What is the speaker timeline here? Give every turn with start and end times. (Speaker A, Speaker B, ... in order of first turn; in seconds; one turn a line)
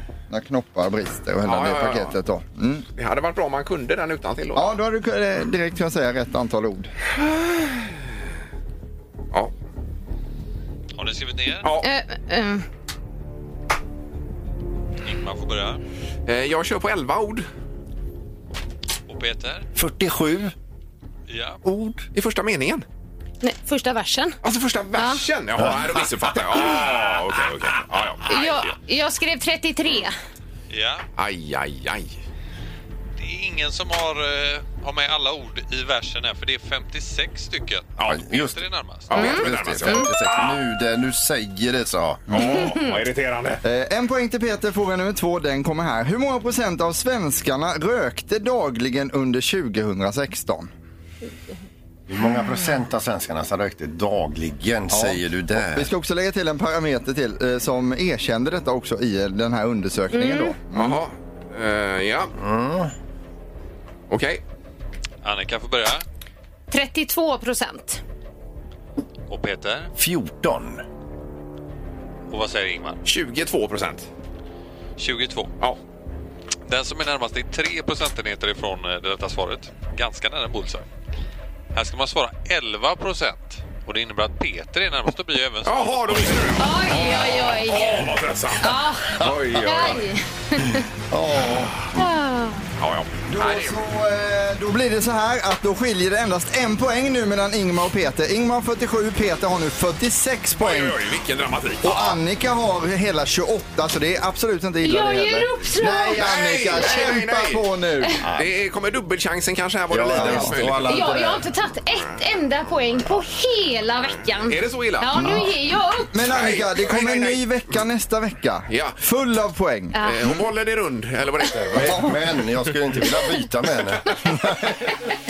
Speaker A: 0.3-2.9
Speaker B: 1.4-2.1
Speaker B: 3.0-4.7
Speaker A: 4.5-6.9
Speaker B: 7.2-7.9
Speaker C: 10.9-11.7
Speaker D: 11.8-12.7
Speaker C: 15.0-15.8
Speaker B: 16.3-17.5
Speaker C: 19.1-19.7
Speaker E: 19.7-20.5
Speaker C: 21.3-21.6
Speaker E: 21.6-22.1
Speaker B: 22.1-22.8
Speaker D: 23.4-24.4
Speaker B: 24.4-28.7
Speaker D: 24.9-25.2
Speaker E: 25.6-26.0
Speaker D: 28.3-30.1
Speaker C: 30.7-31.0
Speaker B: 31.2-32.2
Speaker C: 33.2-39.1
Speaker B: 38.0-38.2
Speaker E: 38.0-42.6
Speaker B: 39.1-40.6
Speaker D: 39.1-40.1
Speaker B: 42.3-43.6
Speaker D: 42.4-42.9
Speaker A: 43.6-50.7
Speaker E: 52.1-55.9
Speaker A: 54.9-61.0
Speaker D: 60.1-60.5
Speaker B: 60.7-62.3
Speaker E: 62.4-62.9
Speaker B: 64.1-64.4
Speaker C: 65.2-66.0
Speaker D: 66.7-68.0
Speaker C: 69.3-69.9
Speaker E: 70.0-70.8
Speaker C: 72.3-73.0
Speaker B: 73.0-74.1
Speaker C: 75.0-75.5
Speaker C: 76.7-80.8
Speaker C: 81.7-86.6
Speaker B: 85.6-90.0
Speaker D: 86.6-90.8
Speaker E: 89.2-89.8
Speaker E: 91.1-91.9
Speaker D: 91.9-92.6
Speaker B: 92.8-93.8
Speaker A: 93.3-101.0
Speaker B: 100.6-102.2
Speaker A: 101.8-108.2
Speaker D: 104.8-106.2
Speaker B: 106.2-107.6
Speaker E: 108.2-108.5
Speaker B: 108.3-111.1
Speaker E: 109.9-111.5
Speaker A: 110.1-110.6
Speaker D: 110.8-116.1
Speaker B: 114.5-115.4
Speaker A: 115.1-115.5
Speaker A: 116.1-120.0
Speaker B: 116.2-117.4
Speaker B: 118.7-119.0
Speaker D: 119.9-120.3
Speaker B: 120.0-122.1
Speaker E: 121.7-124.9
Speaker A: 121.8-122.2